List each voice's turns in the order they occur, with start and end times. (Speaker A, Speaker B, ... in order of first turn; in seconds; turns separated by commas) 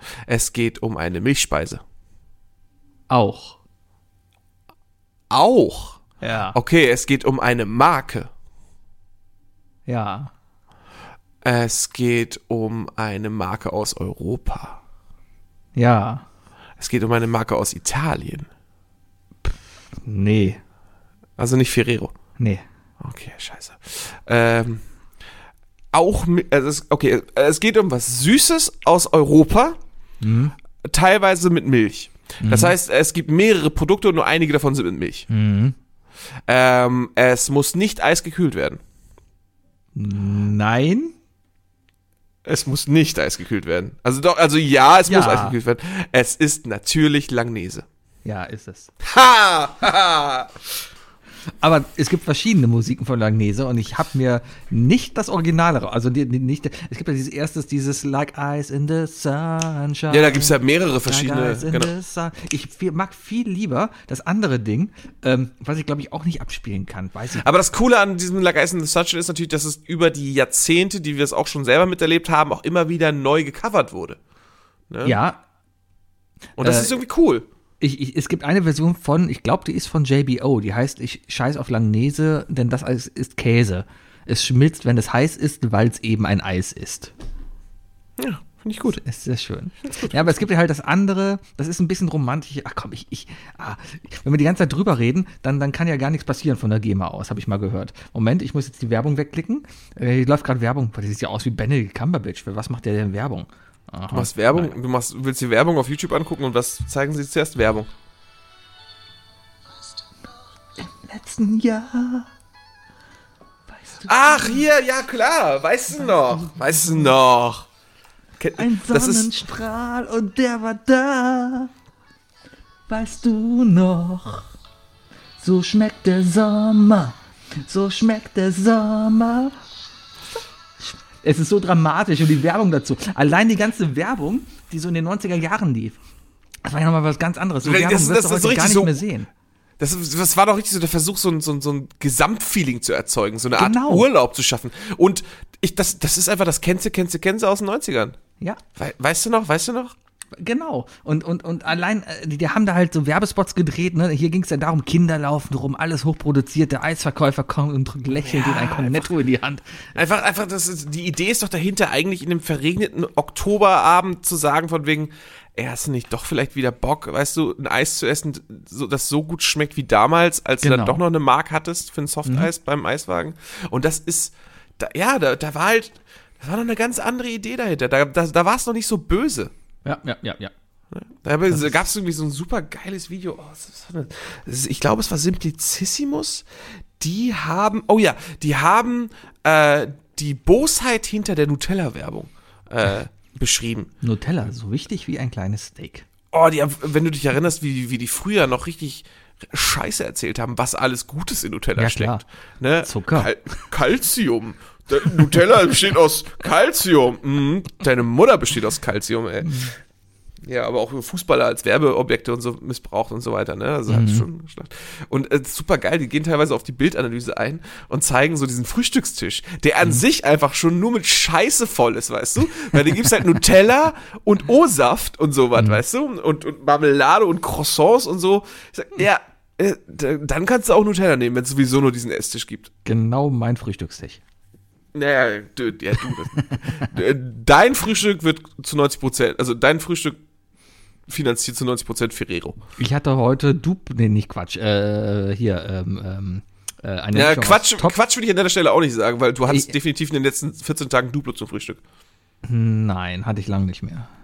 Speaker A: 0.2-1.8, Speaker B: 3.1-3.6, Speaker A: 5.3-6.0, Speaker B: 6.2-6.6, Speaker A: 6.5-8.3, Speaker B: 9.9-10.3, Speaker A: 11.4-14.8, Speaker B: 15.8-16.2, Speaker A: 16.8-18.5, Speaker B: 20.1-20.6, Speaker A: 21.4-22.1, Speaker B: 22.4-22.6, Speaker A: 23.0-24.8, Speaker A: 25.9-29.8, Speaker B: 30.2-30.5, Speaker A: 30.8-35.3, Speaker B: 32.4-32.7, Speaker B: 35.3-35.8, Speaker A: 36.5-38.8, Speaker B: 39.9-41.1, Speaker A: 42.4-47.9, Speaker B: 45.1-45.5, Speaker B: 48.2-48.9, Speaker A: 49.0-50.6, Speaker B: 51.6-67.5, Speaker A: 60.1-61.9, Speaker A: 67.3-74.2, Speaker A: 74.9-75.2, Speaker B: 75.0-75.4, Speaker A: 76.6-77.5, Speaker B: 76.6-77.0, Speaker B: 77.8-87.1, Speaker A: 88.2-89.0, Speaker B: 89.0-104.7, Speaker A: 89.9-90.4, Speaker A: 104.1-107.9, Speaker B: 110.8-112.3, Speaker B: 113.7-114.6, Speaker A: 114.1-117.7, Speaker B: 116.0-116.7, Speaker A: 118.4-119.3, Speaker B: 118.6-121.7, Speaker B: 122.9-124.5, Speaker B: 125.4-129.5, Speaker B: 130.8-136.0, Speaker B: 136.6-139.3, Speaker A: 137.6-139.0, Speaker A: 139.8-148.2, Speaker B: 143.5-144.1, Speaker A: 148.8-149.9, Speaker B: 150.4-159.6, Speaker A: 158.1-159.1, Speaker A: 159.9-179.5, Speaker B: 170.6-171.0, Speaker B: 172.2-172.5, Speaker B: 179.8-180.5, Speaker A: 180.9-186.4, Speaker A: 187.0-193.9, Speaker B: 194.0-196.1, Speaker A: 196.3-209.7, Speaker B: 201.8-202.2, Speaker B: 202.8-203.3, Speaker A: 210.4-232.7, Speaker B: 213.9-214.3, Speaker B: 232.8-234.2, Speaker A: 234.9-240.2, Speaker A: 241.1-242.6, Speaker B: 242.8-247.9, Speaker A: 247.1-251.8, Speaker B: 252.4-254.1